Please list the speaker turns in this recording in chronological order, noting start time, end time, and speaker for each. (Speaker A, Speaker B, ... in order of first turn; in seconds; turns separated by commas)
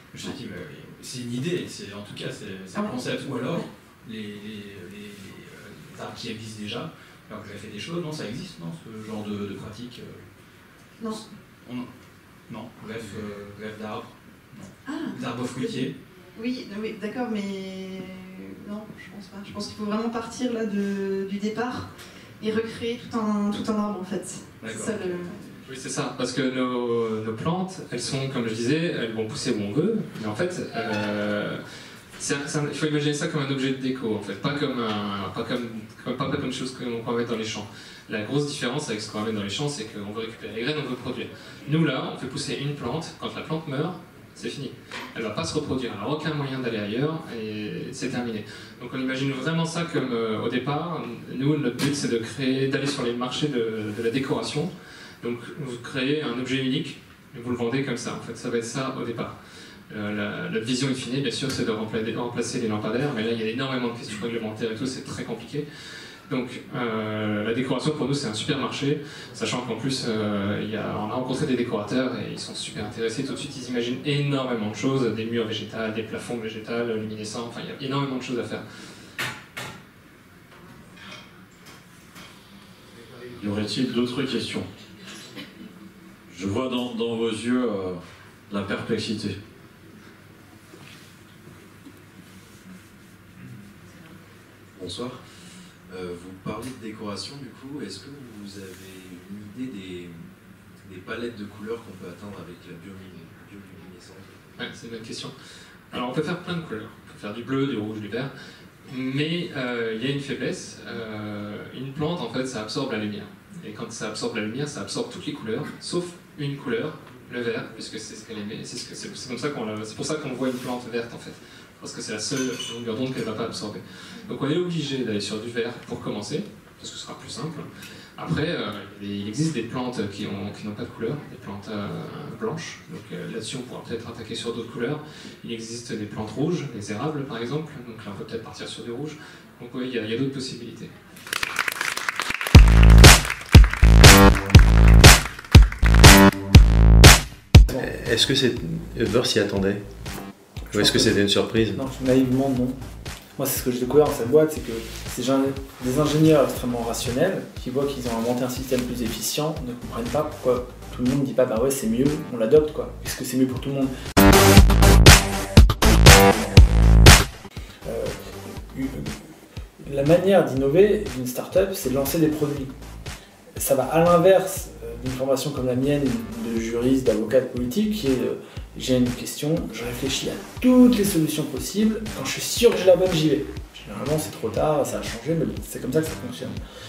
Speaker A: 0.1-10.2, Speaker B: 2.7-3.6, Speaker A: 11.1-11.9, Speaker A: 12.5-15.9, Speaker B: 14.8-21.9, Speaker B: 22.4-25.5, Speaker A: 24.6-24.9, Speaker C: 25.6-31.6, Speaker C: 32.2-59.3, Speaker C: 59.9-65.7, Speaker C: 66.3-78.6, Speaker D: 83.4-84.7, Speaker D: 86.3-89.4, Speaker E: 94.8-95.2, Speaker E: 95.9-100.3, Speaker E: 100.8-104.3, Speaker C: 104.6-105.3, Speaker C: 105.9-108.3, Speaker C: 108.9-127.7, Speaker C: 128.2-140.9, Speaker F: 147.7-149.8, Speaker F: 150.7-151.8, Speaker G: 150.7-151.1, Speaker G: 151.7-152.8, Speaker G: 153.4-163.9, Speaker G: 167.8-168.1, Speaker G: 169.8-172.7, Speaker G: 173.6-186.6